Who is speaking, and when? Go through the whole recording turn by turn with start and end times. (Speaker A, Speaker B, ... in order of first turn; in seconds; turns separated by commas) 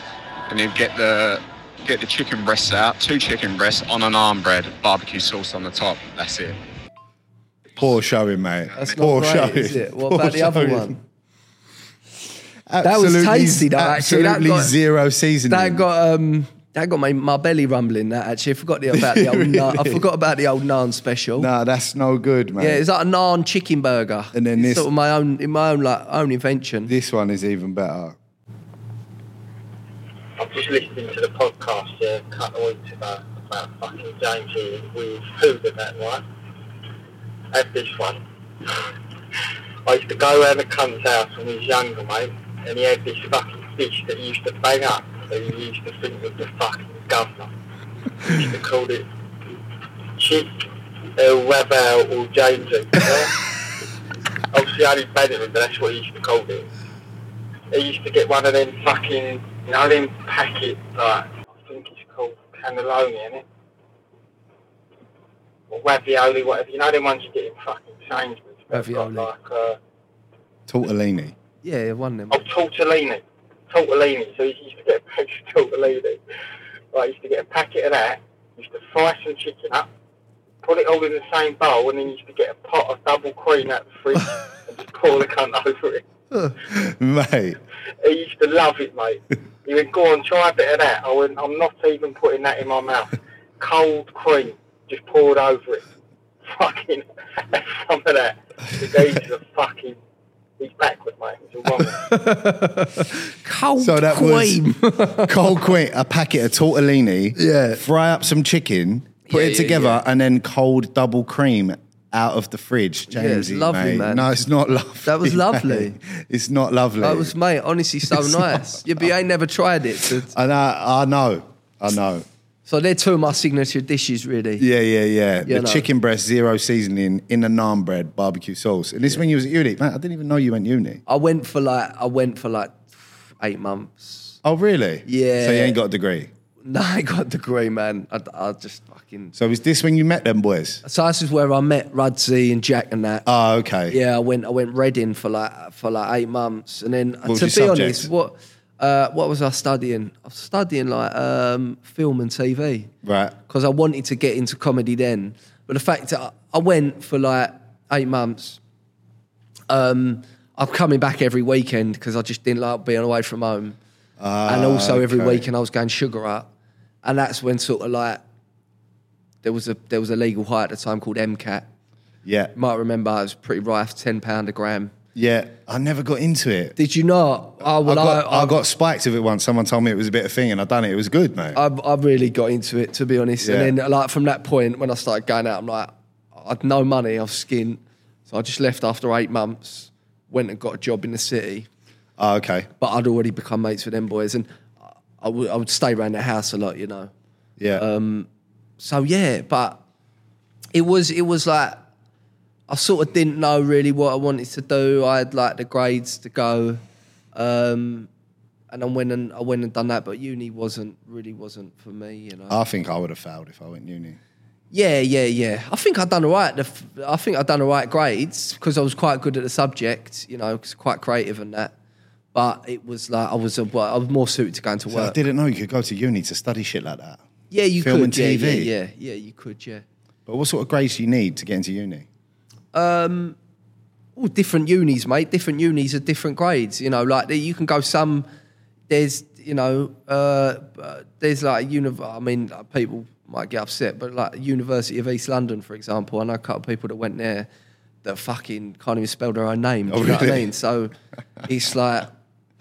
Speaker A: 0.5-6.6, Speaker B: 7.8-11.0, Speaker C: 8.8-11.0, Speaker B: 12.7-15.8, Speaker C: 12.8-14.7, Speaker C: 15.5-21.5, Speaker B: 18.9-20.1, Speaker B: 21.4-22.8, Speaker C: 22.6-26.9, Speaker B: 24.3-24.9, Speaker B: 26.9-28.2, Speaker D: 30.4-36.2, Speaker D: 37.5-38.2, Speaker D: 39.8-47.5, Speaker D: 48.2-49.0, Speaker D: 50.1-50.6, Speaker D: 51.2-53.4, Speaker D: 54.5-56.7, Speaker D: 57.7-63.5, Speaker D: 65.7-69.8, Speaker C: 68.7-69.3, Speaker B: 70.7-71.3, Speaker C: 71.6-72.5, Speaker D: 72.3-76.2, Speaker D: 76.9-79.9, Speaker D: 80.6-86.0, Speaker B: 86.6-87.6, Speaker D: 88.0-95.8, Speaker D: 96.4-100.0, Speaker D: 100.6-102.1, Speaker C: 102.0-105.7, Speaker B: 103.8-104.6, Speaker B: 105.2-117.3, Speaker C: 107.3-107.8, Speaker C: 109.3-110.0, Speaker C: 113.1-114.3, Speaker C: 115.0-116.0, Speaker C: 117.0-120.3, Speaker B: 118.1-119.1, Speaker B: 120.2-122.2, Speaker C: 122.7-124.7, Speaker B: 124.6-131.0, Speaker C: 125.4-125.8, Speaker C: 131.1-134.3, Speaker B: 134.4-136.3, Speaker C: 135.1-135.8, Speaker C: 136.6-139.3, Speaker B: 139.3-140.8, Speaker C: 140.8-143.2, Speaker B: 143.2-144.0, Speaker C: 143.9-152.9, Speaker B: 147.2-148.1, Speaker B: 153.0-153.3, Speaker C: 153.5-158.6, Speaker C: 159.7-163.8, Speaker B: 164.2-165.4, Speaker C: 164.4-166.5, Speaker C: 167.0-168.2, Speaker C: 169.4-171.7, Speaker B: 172.2-172.5, Speaker C: 172.5-174.9, Speaker B: 175.1-176.7, Speaker C: 176.8-178.6, Speaker B: 177.6-181.6, Speaker C: 181.5-191.7, Speaker B: 183.4-183.7, Speaker B: 192.2-192.7, Speaker C: 192.8-194.5, Speaker C: 195.2-197.1, Speaker C: 197.7-198.3, Speaker C: 198.8-199.8, Speaker C: 200.7-201.8, Speaker C: 202.7-206.8, Speaker C: 207.3-208.1, Speaker C: 208.7-212.6, Speaker B: 212.5-214.2, Speaker C: 214.7-221.7, Speaker C: 222.3-225.2, Speaker B: 224.9-227.2, Speaker C: 227.5-229.8, Speaker B: 227.8-228.7, Speaker B: 230.3-232.1, Speaker C: 232.7-233.4, Speaker C: 234.2-238.3, Speaker C: 238.9-247.5, Speaker C: 248.0-250.9, Speaker B: 249.9-250.5, Speaker C: 251.4-252.1